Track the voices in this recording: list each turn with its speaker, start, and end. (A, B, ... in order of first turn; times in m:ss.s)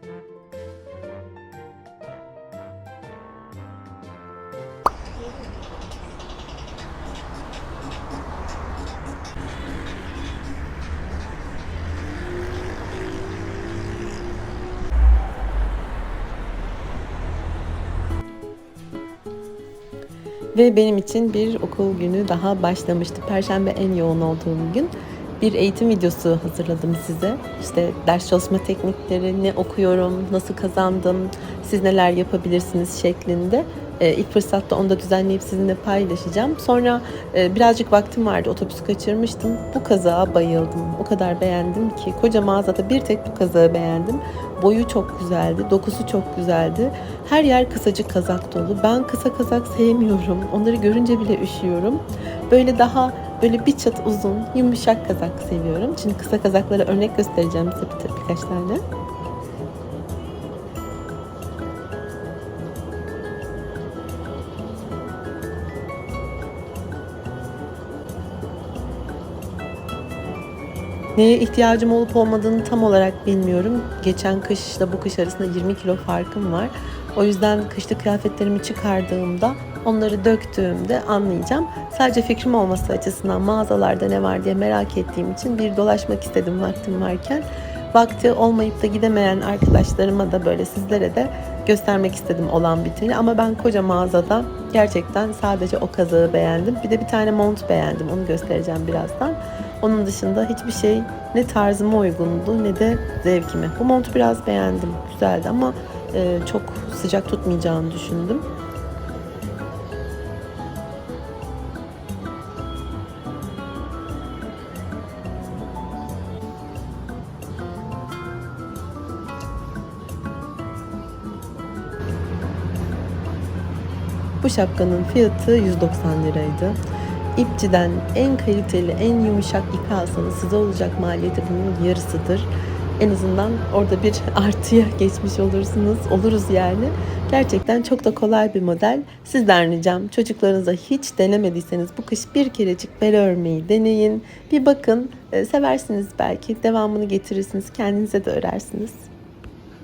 0:20.5-0:58.8 A
1:11.2-1:48.5 A
2:04.4-2:06.8 A
2:07.4-2:29.1 A